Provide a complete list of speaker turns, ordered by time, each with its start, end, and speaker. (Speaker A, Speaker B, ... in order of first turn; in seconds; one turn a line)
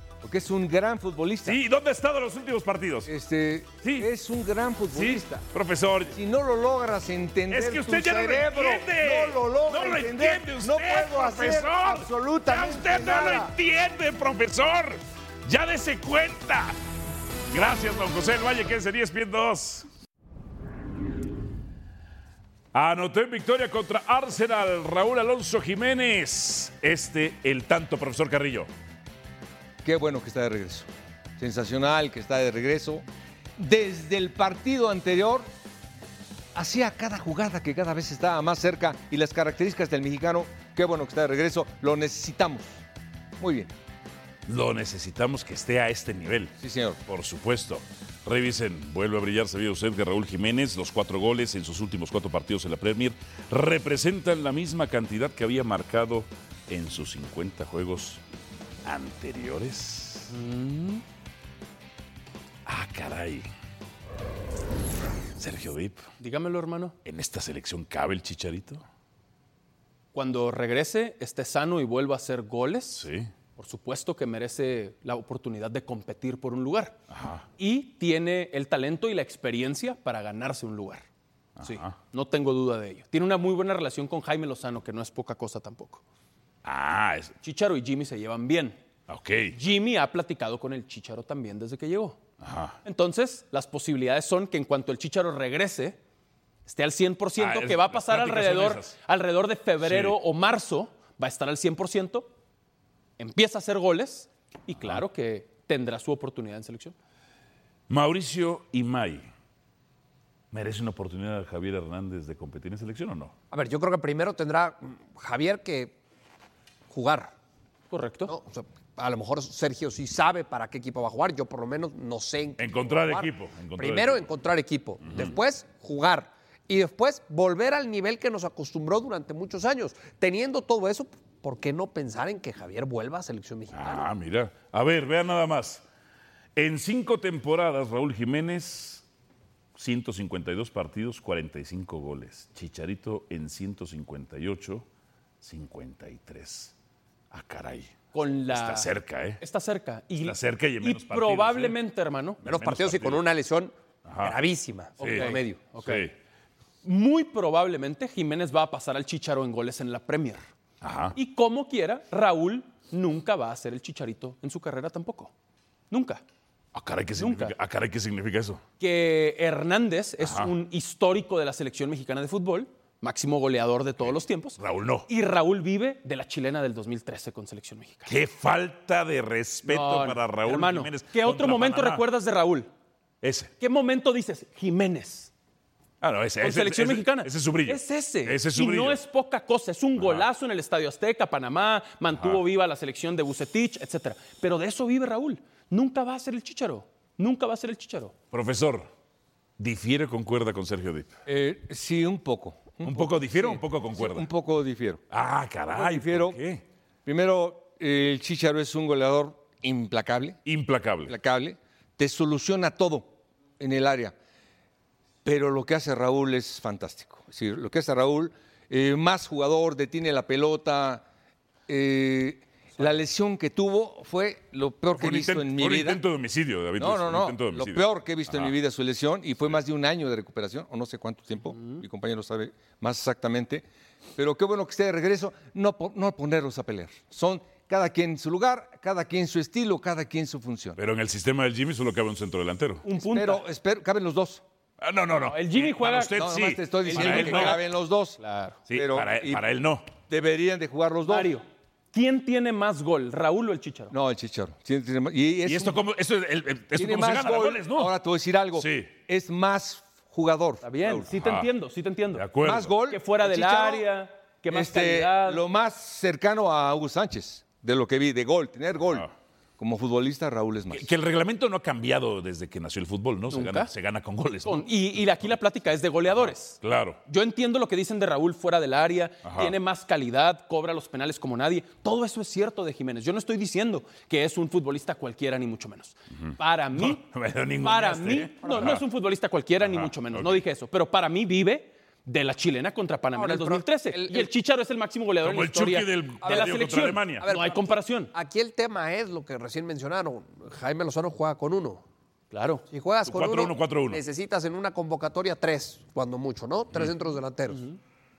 Speaker A: 0.2-1.6
Speaker B: 1.4-3.1
Speaker A: 3.0-5.4
Speaker B: 3.8-4.1
Speaker B: 4.9-6.1
Speaker A: 6.1-13.5
Speaker B: 7.5-16.7
Speaker B: 17.5-19.9
Speaker B: 22.7-28.7
Speaker A: 29.8-33.0
Speaker A: 33.6-35.5
Speaker A: 36.5-42.8
Speaker A: 43.4-43.7
Speaker B: 44.5-46.5
Speaker A: 46.6-47.0
Speaker B: 47.1-58.2
Speaker B: 58.8-60.3
Speaker C: 60.3-61.0
Speaker B: 62.6-63.5
Speaker B: 65.4-66.1
Speaker C: 66.2-66.9
Speaker B: 67.0-68.8
Speaker C: 70.1-73.0
Speaker B: 72.9-73.3
Speaker C: 73.6-77.0
Speaker B: 77.1-77.5
Speaker C: 77.6-81.0
Speaker B: 81.6-81.9
Speaker C: 81.6-86.0
Speaker B: 86.6-87.3
Speaker C: 87.4-88.8
Speaker B: 89.1-89.5
Speaker C: 89.5-92.2
Speaker B: 92.4-92.8
Speaker C: 92.8-96.0
Speaker C: 96.7-102.3
Speaker B: 97.4-99.0
Speaker B: 99.8-100.2
Speaker C: 103.2-107.0
Speaker B: 104.8-105.0
Speaker B: 107.9-109.2
Speaker B: 110.5-113.3
Speaker D: 113.5-116.0
Speaker D: 116.9-117.3
Speaker C: 117.9-118.3
Speaker D: 118.2-134.1
Speaker B: 122.6-124.3
Speaker B: 125.0-125.4
Speaker B: 133.7-135.8
Speaker B: 136.6-139.0
Speaker B: 139.8-144.9
Speaker B: 145.4-146.7
Speaker B: 147.3-148.0
Speaker C: 148.1-148.9
Speaker B: 148.5-149.4
Speaker C: 149.4-152.4
Speaker B: 150.2-151.8
Speaker B: 152.4-153.2
Speaker D: 152.4-155.6
Speaker B: 154.1-154.4
Speaker B: 155.0-156.1
Speaker C: 155.0-156.0
Speaker C: 156.8-160.4
Speaker B: 160.8-161.2
Speaker C: 161.1-165.3
Speaker C: 165.9-166.2
Speaker B: 166.7-168.6
Speaker C: 167.2-167.5
Speaker C: 168.8-178.1
Speaker B: 170.2-170.5
Speaker B: 174.6-175.1
Speaker B: 178.1-182.0
Speaker C: 179.7-182.7
Speaker B: 183.2-183.5
Speaker C: 183.6-185.3
Speaker B: 186.0-189.0
Speaker C: 186.4-198.1
Speaker B: 190.0-190.3
Speaker B: 192.1-192.4
Speaker B: 198.3-198.9
Speaker B: 199.6-201.1
Speaker A: 201.2-205.0
Speaker B: 202.8-204.3
Speaker B: 205.1-206.6
Speaker A: 205.7-206.4
Speaker A: 207.1-210.4
Speaker B: 210.4-211.1
Speaker A: 211.1-214.1
Speaker A: 215.2-221.0
Speaker A: 221.7-226.0
Speaker B: 224.9-228.6
Speaker A: 226.8-233.6
Speaker C: 231.5-231.8
Speaker A: 234.2-240.8
Speaker B: 240.8-242.8
Speaker C: 242.8-243.4
Speaker A: 243.0-244.4
Speaker B: 244.8-247.6
Speaker C: 245.2-246.2
Speaker A: 246.1-248.2
Speaker C: 246.8-247.6
Speaker C: 248.2-248.6
Speaker B: 248.7-249.9
Speaker A: 248.7-249.4
Speaker A: 250.0-251.3
Speaker C: 251.1-253.9
Speaker A: 253.9-255.8
Speaker B: 255.4-257.9
Speaker A: 256.7-261.1
Speaker B: 258.6-258.9
Speaker C: 260.6-262.2
Speaker B: 261.0-261.5
Speaker B: 262.1-262.7
Speaker A: 262.4-263.9
Speaker C: 262.9-265.4
Speaker A: 264.5-269.1
Speaker A: 269.6-270.9
Speaker B: 270.7-275.3
Speaker C: 273.3-273.7
Speaker C: 274.4-287.0
Speaker B: 276.1-277.0
Speaker B: 279.2-279.5
Speaker B: 286.2-288.8
Speaker C: 287.6-298.1
Speaker B: 289.6-290.4
Speaker D: 293.1-294.3
Speaker B: 295.2-297.2
Speaker D: 296.2-296.6
Speaker D: 297.2-301.8
Speaker C: 302.3-302.6
Speaker D: 302.7-307.6
Speaker B: 303.1-304.0
Speaker C: 307.5-307.8